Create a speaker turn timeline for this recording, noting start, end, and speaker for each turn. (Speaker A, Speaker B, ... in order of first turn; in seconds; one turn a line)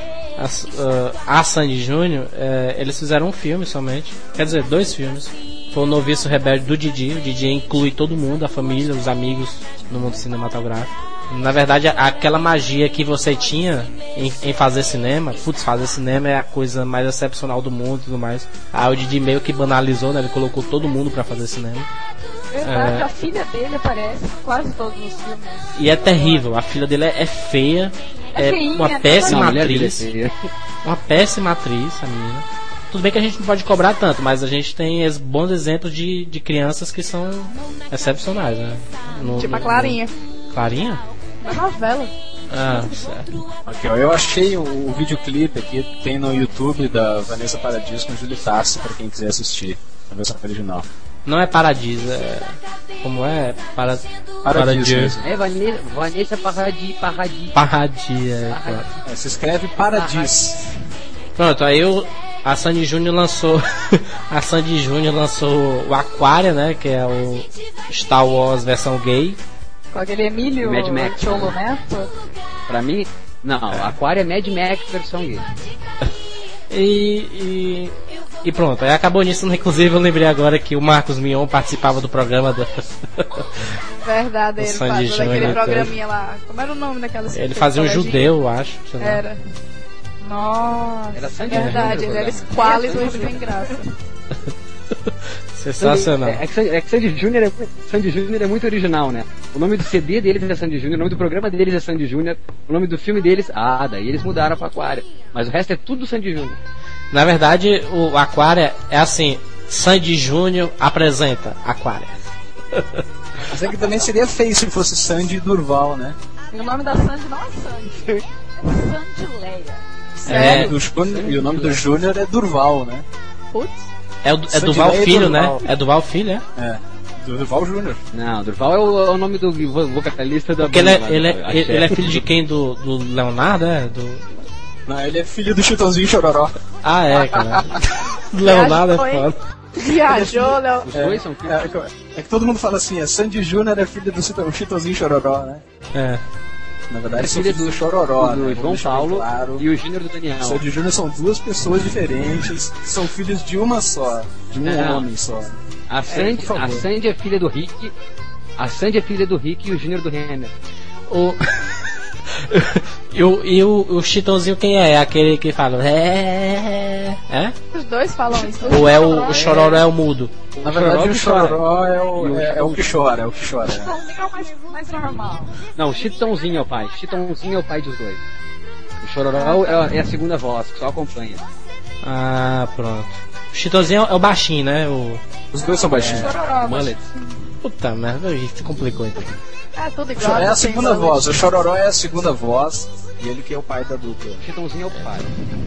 Speaker A: 0.4-21.9
Speaker B: 22.5-26.4
Speaker A: 22.6-23.1
Speaker A: 25.7-30.1
Speaker B: 28.3-29.5
Speaker C: 29.3-30.3
Speaker A: 30.8-40.0
Speaker D: 39.2-40.1
Speaker A: 40.5-41.0
Speaker D: 41.4-42.1
Speaker A: 42.5-43.3
Speaker E: 43.6-50.9
Speaker A: 51.3-55.2
Speaker E: 54.4-55.3
Speaker C: 55.2-57.5
Speaker A: 57.5-58.9
Speaker C: 58.5-59.0
Speaker E: 59.0-60.6
Speaker C: 59.9-60.5
Speaker A: 61.4-69.4
Speaker B: 69.9-72.1
Speaker C: 70.6-71.5
Speaker C: 72.7-75.5
Speaker A: 76.7-77.9
Speaker A: 78.4-83.7
Speaker D: 84.0-88.3
Speaker A: 84.6-85.9
Speaker A: 87.3-89.2
Speaker D: 89.0-89.4
Speaker B: 90.2-91.6
Speaker C: 91.1-93.5
Speaker D: 91.5-93.9
Speaker A: 91.5-91.8
Speaker B: 92.6-93.0
Speaker A: 94.9-96.4
Speaker C: 95.8-106.6
Speaker A: 107.1-112.1
Speaker A: 112.7-113.0
Speaker E: 113.5-116.2
Speaker B: 116.5-119.8
Speaker D: 120.2-120.7
Speaker E: 120.3-123.0
Speaker A: 120.3-120.7
Speaker C: 120.9-121.8
Speaker D: 123.5-123.8
Speaker A: 124.2-126.4
Speaker E: 124.5-125.6
Speaker E: 126.5-128.0
Speaker C: 128.1-132.2
Speaker A: 130.6-134.3
Speaker E: 134.9-136.5
Speaker A: 136.8-139.4
Speaker E: 137.2-137.6
Speaker D: 138.4-140.9
Speaker E: 139.9-145.6
Speaker C: 140.8-141.7
Speaker A: 145.9-146.2
Speaker E: 146.9-149.7
Speaker C: 147.2-150.6
Speaker E: 150.4-156.9
Speaker C: 154.6-155.1
Speaker C: 155.9-157.9
Speaker C: 158.6-160.5
Speaker A: 161.1-161.7
Speaker A: 162.3-167.6
Speaker D: 167.7-169.3
Speaker B: 168.4-169.7
Speaker A: 168.7-170.3
Speaker C: 169.3-169.8
Speaker C: 170.6-173.0
Speaker E: 170.6-173.9
Speaker B: 173.6-175.6
Speaker C: 175.8-178.2
Speaker C: 179.0-181.4
Speaker B: 179.4-179.9
Speaker A: 182.0-185.2
Speaker E: 185.5-186.3
Speaker C: 185.9-187.1
Speaker B: 186.1-187.0
Speaker A: 187.6-189.4
Speaker D: 189.8-191.4
Speaker E: 190.2-194.4
Speaker C: 194.4-195.3